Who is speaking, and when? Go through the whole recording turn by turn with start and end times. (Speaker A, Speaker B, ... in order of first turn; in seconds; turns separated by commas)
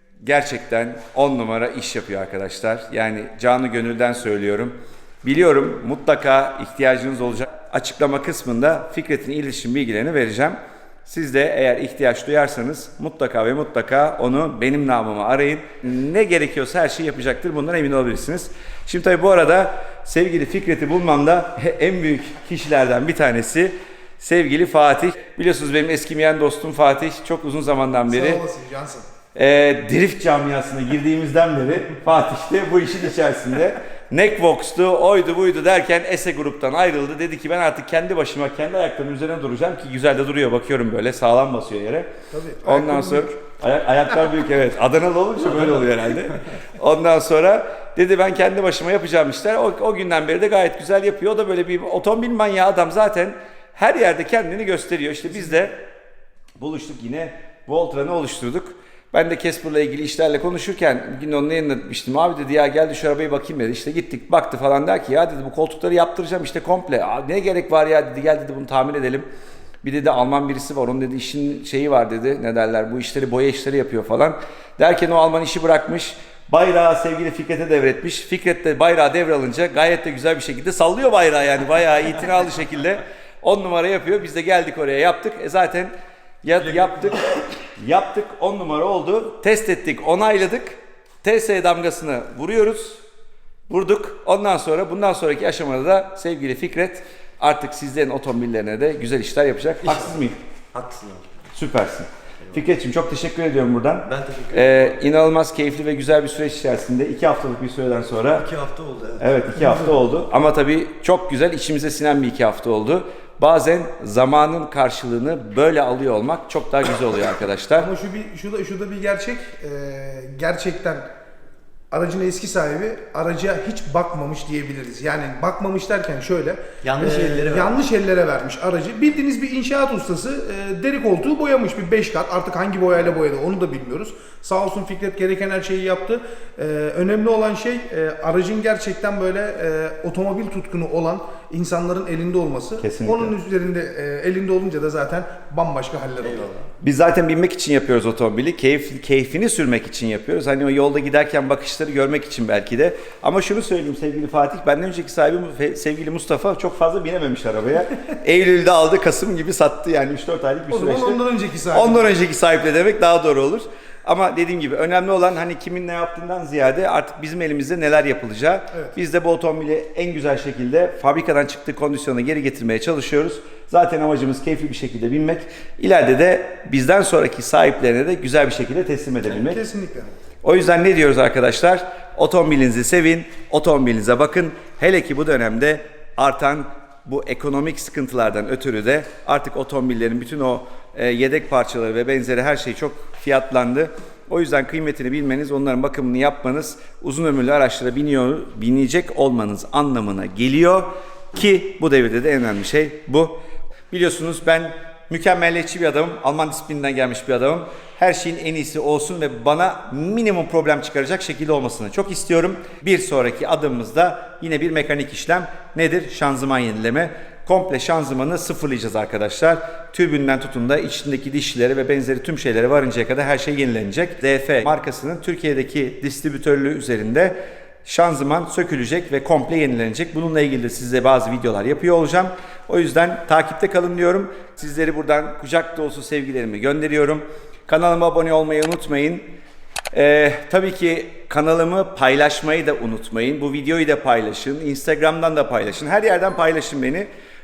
Speaker A: 0.2-28.4, Speaker B: 28.1-29.0, Speaker A: 29.3-42.1, Speaker B: 42.3-43.3, Speaker A: 42.6-55.8, Speaker A: 56.6-69.3, Speaker A: 69.8-85.9, Speaker A: 86.4-93.0, Speaker A: 93.7-100.4, Speaker C: 99.8-100.1, Speaker C: 100.7-101.4, Speaker A: 101.5-108.5, Speaker C: 104.1-104.9, Speaker C: 108.3-109.2, Speaker A: 109.2-117.9, Speaker B: 117.8-121.1, Speaker B: 121.9-146.5, Speaker C: 126.8-127.8, Speaker A: 142.8-143.3, Speaker C: 146.2-146.7, Speaker A: 146.8-161.2, Speaker B: 160.7-162.1, Speaker A: 161.7-179.6, Speaker B: 179.3-180.1, Speaker A: 180.4-239.3, Speaker A: 239.9-247.1